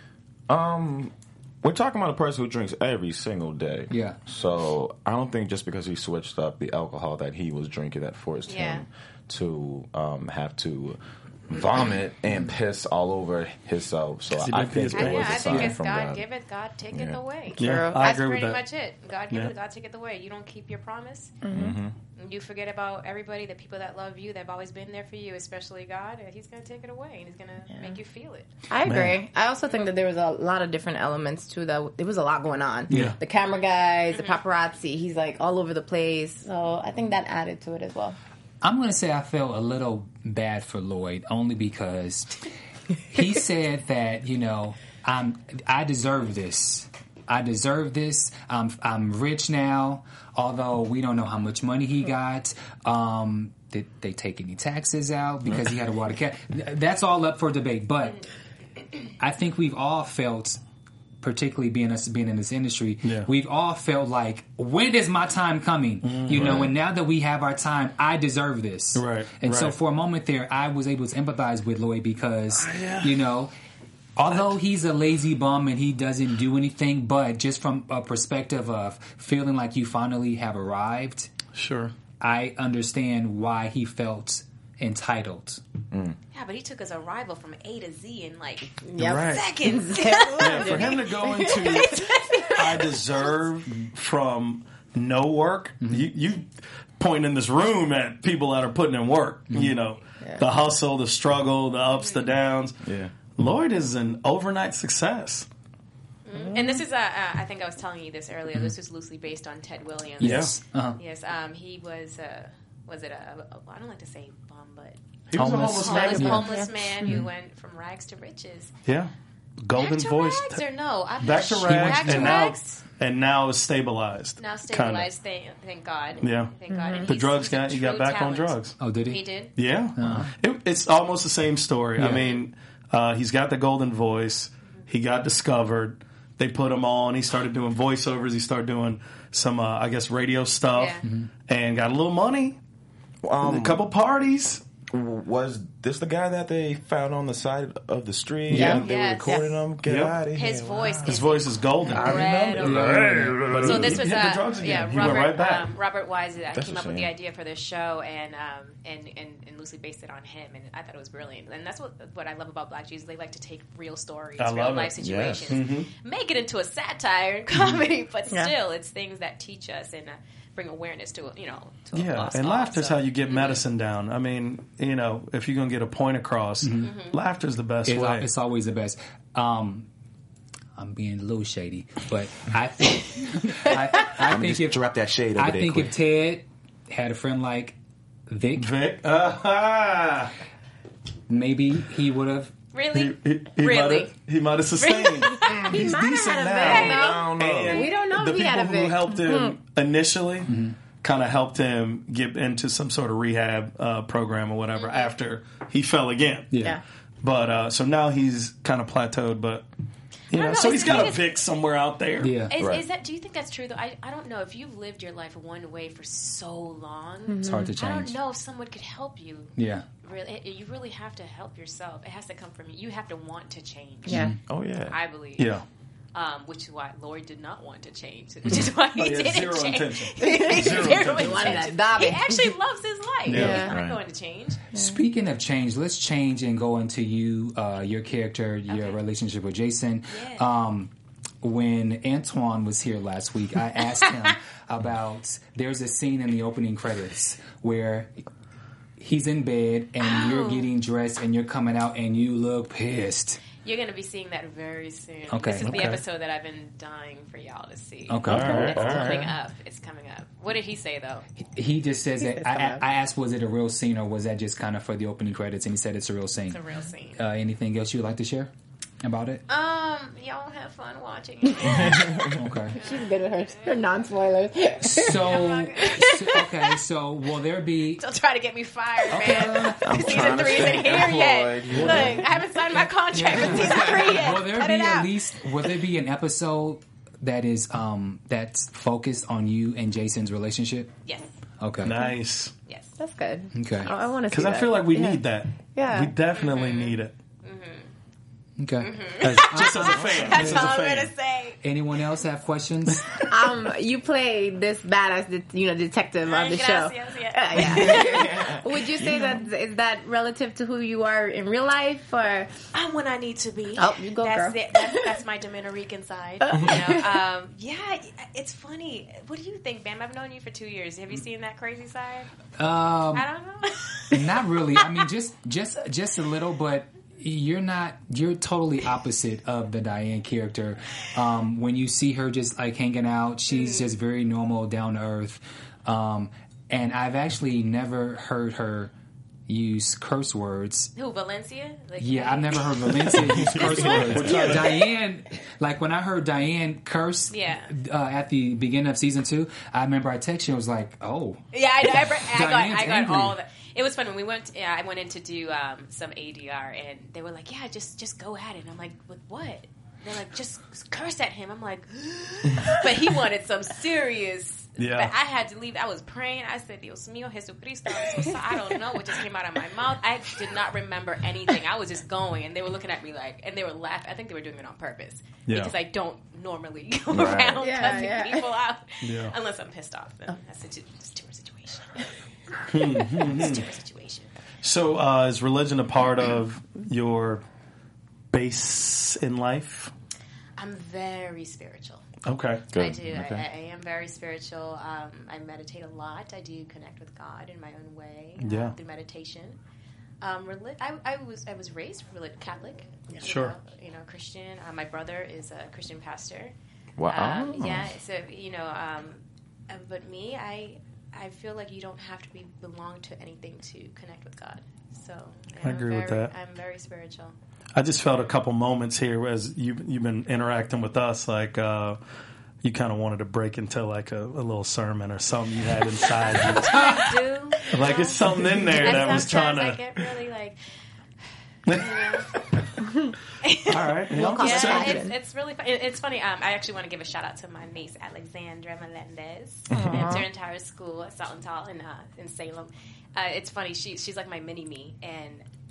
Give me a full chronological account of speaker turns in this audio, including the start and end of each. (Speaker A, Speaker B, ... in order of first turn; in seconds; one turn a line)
Speaker A: 0.5-16.2
Speaker B: 3.9-4.2
Speaker C: 8.5-8.8
Speaker D: 14.4-15.7
Speaker C: 14.9-21.3
Speaker A: 16.9-17.2
Speaker E: 17.6-18.0
Speaker D: 17.6-18.6
Speaker E: 21.4-21.7
Speaker A: 21.5-21.9
Speaker C: 22.2-28.5
Speaker E: 28.7-38.2
Speaker D: 28.9-29.2
Speaker B: 32.9-33.1
Speaker D: 32.9-33.2
Speaker C: 34.1-34.4
Speaker B: 38.6-42.4
Speaker B: 43.0-58.2
Speaker B: 59.2-60.6
Speaker B: 61.2-73.5
Speaker D: 63.0-63.3
Speaker D: 66.0-66.7
Speaker A: 66.3-66.7
Speaker D: 69.0-69.7
Speaker D: 72.5-73.1
Speaker B: 74.2-81.3
Speaker D: 81.5-81.9
Speaker B: 82.2-85.6
Speaker C: 86.3-93.0
Speaker E: 88.8-91.8
Speaker D: 89.0-89.5
Speaker D: 90.4-91.9
Speaker D: 92.5-105.5
Speaker B: 95.8-96.1
Speaker B: 99.5-99.8
Speaker C: 102.0-102.3
Speaker A: 102.8-103.1
Speaker C: 106.2-118.7
Speaker E: 106.5-106.8
Speaker B: 110.2-111.0
Speaker D: 110.2-110.5
Speaker D: 115.3-116.6
Speaker B: 115.3-116.5
Speaker E: 115.8-116.7
Speaker D: 118.8-120.6
Speaker C: 119.8-122.8
Speaker D: 121.2-125.1
Speaker B: 121.6-122.5
Speaker C: 124.4-129.5
Speaker D: 126.2-128.8
Speaker E: 126.7-127.1
Speaker B: 128.8-129.2
Speaker D: 129.6-142.6
Speaker B: 129.9-130.3
Speaker B: 132.0-132.2
Speaker C: 140.7-141.1
Speaker A: 143.2-143.9
Speaker D: 143.4-144.6
Speaker A: 144.9-150.9
Speaker D: 148.5-148.8
Speaker E: 148.5-149.5
Speaker C: 148.7-149.4
Speaker D: 149.8-150.2
Speaker C: 150.3-152.9
Speaker D: 150.8-155.7
Speaker B: 152.2-153.9
Speaker A: 153.4-154.0
Speaker C: 153.6-173.6
Speaker A: 156.5-157.1
Speaker D: 164.4-164.9
Speaker A: 165.0-165.6
Speaker D: 165.5-165.9
Speaker D: 171.9-178.3
Speaker B: 176.6-176.9
Speaker C: 176.8-177.2
Speaker B: 177.8-179.9
Speaker B: 180.7-184.8
Speaker A: 184.2-185.9
Speaker B: 185.3-187.7
Speaker B: 188.3-188.7
Speaker D: 188.6-190.3
Speaker B: 191.3-192.5
Speaker C: 192.7-194.1
Speaker D: 192.9-206.5
Speaker C: 194.8-195.7
Speaker A: 195.4-195.8
Speaker E: 195.7-199.6
Speaker A: 196.6-197.9
Speaker C: 196.6-197.2
Speaker B: 200.5-200.8
Speaker C: 204.7-205.1
Speaker B: 206.5-206.8
Speaker D: 207.2-209.7
Speaker D: 210.3-212.4
Speaker C: 210.3-211.2
Speaker B: 212.2-212.5
Speaker C: 212.5-224.3
Speaker A: 212.5-212.8
Speaker E: 217.3-217.7
Speaker B: 217.4-218.2
Speaker B: 219.6-219.8
Speaker E: 224.1-224.3
Speaker B: 224.1-224.4
Speaker A: 224.5-224.9
Speaker C: 224.9-225.6
Speaker D: 225.4-225.6
Speaker C: 226.1-234.6
Speaker D: 228.9-231.6
Speaker E: 230.3-232.6
Speaker D: 233.3-233.7
Speaker E: 233.3-233.7
Speaker A: 233.4-234.0
Speaker B: 234.7-248.1
Speaker C: 238.7-239.0
Speaker C: 240.1-240.4
Speaker B: 249.0-253.4
Speaker C: 250.0-250.7
Speaker C: 253.6-261.2
Speaker B: 255.3-255.8
Speaker D: 255.6-256.0
Speaker B: 258.1-259.1
Speaker D: 258.2-258.8
Speaker A: 258.3-259.3
Speaker E: 258.5-259.3
Speaker B: 261.4-266.6
Speaker E: 262.2-262.8
Speaker C: 266.5-267.2
Speaker B: 267.1-268.5
Speaker B: 269.0-269.4
Speaker C: 269.5-273.0
Speaker A: 271.6-272.4
Speaker B: 272.3-272.8
Speaker E: 272.8-275.3
Speaker B: 274.8-278.0
Speaker C: 275.1-276.8
Speaker C: 277.9-285.1
Speaker B: 279.1-280.6
Speaker A: 279.8-282.2
Speaker D: 281.7-282.1
Speaker B: 283.1-290.9
Speaker B: 291.6-291.9
Speaker D: 291.8-292.5
Speaker C: 292.7-293.0
Speaker E: 293.0-296.1
Speaker B: 293.5-293.9
Speaker C: 293.8-294.1
Speaker D: 294.3-297.1
Speaker C: 296.3-297.9
Speaker B: 298.6-300.7
Speaker C: 298.8-301.6
Speaker D: 299.2-301.1
Speaker B: 301.6-303.1
Speaker E: 303.2-312.5
Speaker C: 306.2-308.5
Speaker A: 307.7-309.4
Speaker C: 312.7-322.3
Speaker E: 313.8-315.1
Speaker E: 316.4-317.0
Speaker B: 322.6-323.2
Speaker C: 323.1-324.9
Speaker B: 324.1-338.9
Speaker C: 333.5-333.9
Speaker B: 339.5-340.9
Speaker C: 340.9-344.6
Speaker B: 342.0-353.3
Speaker A: 343.6-344.2
Speaker D: 343.6-344.8
Speaker C: 347.3-347.7
Speaker C: 351.5-382.1
Speaker D: 364.8-365.1
Speaker E: 368.0-368.6
Speaker D: 375.4-375.7
Speaker A: 377.1-377.7
Speaker E: 377.6-378.5
Speaker D: 379.0-379.3
Speaker D: 382.7-383.7
Speaker C: 382.8-384.3
Speaker D: 384.6-387.4
Speaker D: 388.3-389.9
Speaker C: 390.6-392.0
Speaker D: 392.2-392.6
Speaker A: 392.7-393.4
Speaker C: 392.7-399.6
Speaker D: 398.4-398.7
Speaker C: 400.2-406.5
Speaker D: 403.2-403.5
Speaker A: 407.0-407.9
Speaker C: 407.1-417.3
Speaker D: 415.6-416.3
Speaker D: 417.8-422.0
Speaker D: 422.6-426.7
Speaker C: 426.2-430.6
Speaker B: 426.6-427.2
Speaker D: 427.7-429.8
Speaker D: 431.6-432.2
Speaker C: 431.7-432.3
Speaker E: 432.8-433.1
Speaker C: 433.4-445.4
Speaker D: 433.7-435.0
Speaker E: 434.1-435.1
Speaker E: 439.7-440.2